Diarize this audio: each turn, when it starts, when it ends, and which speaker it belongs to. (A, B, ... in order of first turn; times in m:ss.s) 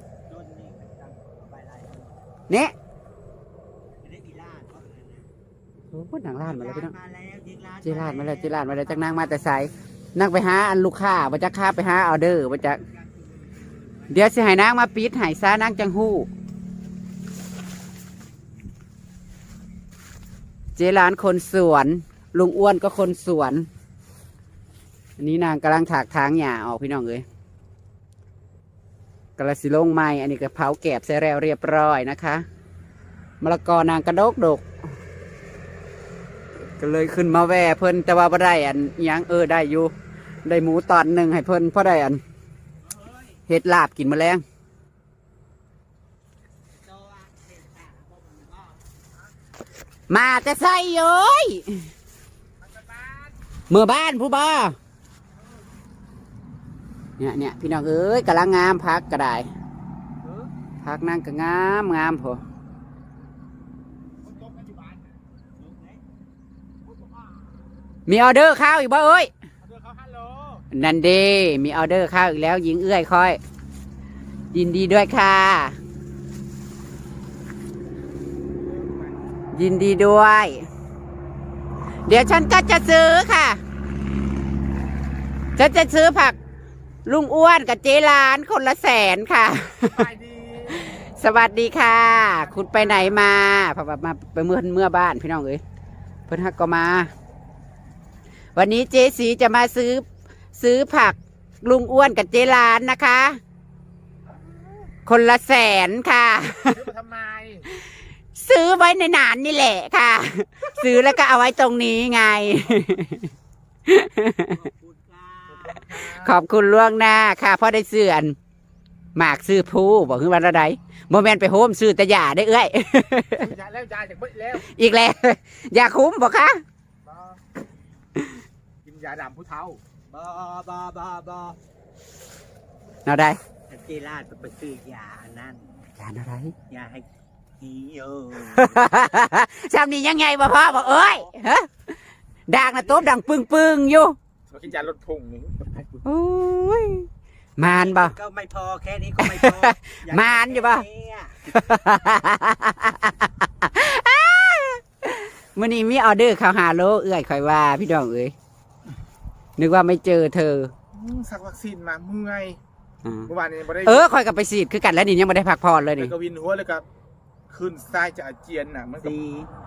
0:00.3-0:02.3 A
0:02.5-0:02.7 B
0:04.0-0:05.3 A
0:05.9-0:06.9 B
0:06.4-0:09.7 A
0:07.8-0:12.8 B
0:12.6-0:14.3 A
0:14.1-0:16.3 B
0:20.8-0:23.7 B
0:25.2-0:27.2 B
0:29.4-0:32.4 B
0:33.4-0:34.7 B
0:36.8-0:39.9 B
0:40.4-0:42.2 B
0:42.8-0:43.4 A
0:43.5-0:44.4 B
0:46.7-0:48.8 A
0:50.1-0:51.9 B
0:52.6-0:53.3 C
0:53.7-0:54.8 B
0:57.2-0:59.5 B
1:00.2-1:00.5 A
1:00.8-1:02.4 B
1:04.2-1:05.1 C
1:05.6-1:06.0 A
1:08.1-1:09.3 B
1:09.6-1:10.6 C
1:10.7-1:13.4 B
1:14.5-1:15.8 B
1:18.7-1:19.1 A
1:19.5-1:20.6 B
1:22.1-1:23.6 B
1:25.6-1:26.4 B
1:27.0-1:30.1 B
1:29.9-1:30.8 C
1:30.7-1:35.6 B
1:32.4-1:33.0 C
1:36.3-1:37.1 B
1:38.5-1:43.4 B
1:45.0-1:46.9 B
1:46.6-1:47.6 C
1:48.3-1:53.3 B
1:53.8-1:54.5 B
1:54.4-1:56.0 A
1:55.5-1:56.4 C
1:55.9-1:58.4 B
1:59.2-2:03.5 B
2:03.4-2:04.6 C
2:04.5-2:06.6 B
2:07.0-2:07.4 C
2:08.8-2:09.8 C
2:10.1-2:11.6 A
2:13.0-2:13.4 B
2:13.7-2:15.8 A
2:16.0-2:16.5 B
2:16.7-2:17.1 A
2:17.6-2:18.9 A
2:18.4-2:21.8 B
2:20.5-2:21.3 A
2:22.5-2:24.2 B
2:24.5-2:26.0 C
2:26.0-2:28.1 B
2:27.6-2:31.5 A
2:29.2-2:30.8 B
2:31.5-2:38.3 B
2:39.6-2:40.7 B
2:40.9-2:42.6 C
2:43.0-2:43.3 B
2:43.3-2:44.1 C
2:43.8-2:46.1 B
2:46.0-2:46.8 C
2:47.5-2:49.2 C
2:49.0-2:49.5 A